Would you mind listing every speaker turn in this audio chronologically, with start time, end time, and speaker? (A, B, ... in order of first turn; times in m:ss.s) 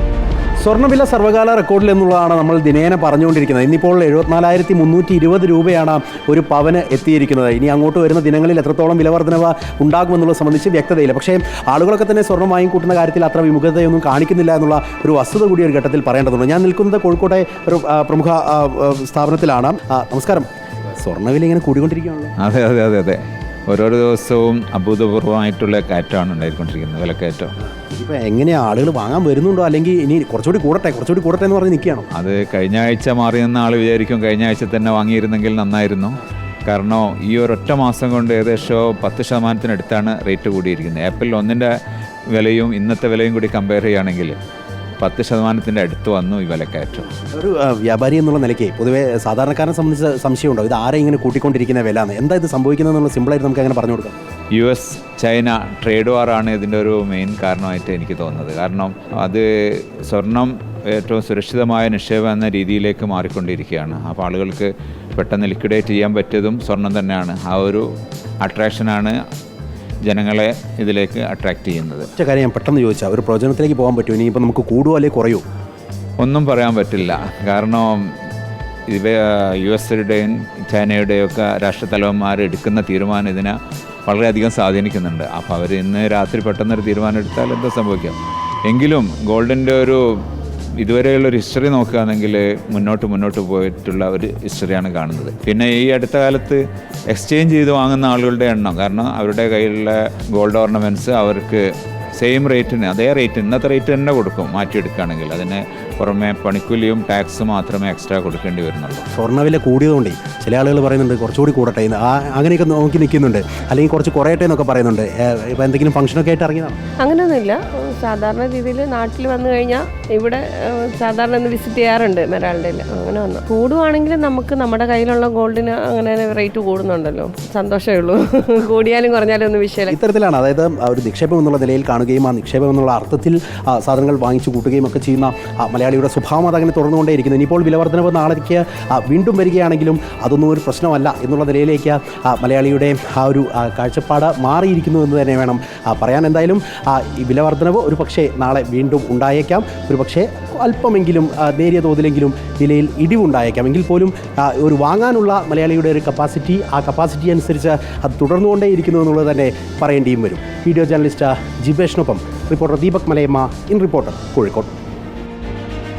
0:00.6-0:22.3 A
0:22.4-0:27.5 B
0:27.9-0:32.1 A
0:32.1-0:41.7 B
0:42.3-0:44.4 B
0:45.0-0:47.1 B
0:47.3-0:54.2 A
0:54.5-1:07.8 B
1:08.4-1:09.2 B
1:10.0-1:12.1 B
1:12.2-1:15.4 A
1:16.2-1:18.1 B
1:18.9-1:23.5 B
1:24.1-1:30.0 B
1:30.8-1:41.6 B
1:42.2-1:49.0 B
1:49.1-1:56.8 A
1:57.0-2:10.0 C
2:09.9-2:44.7 A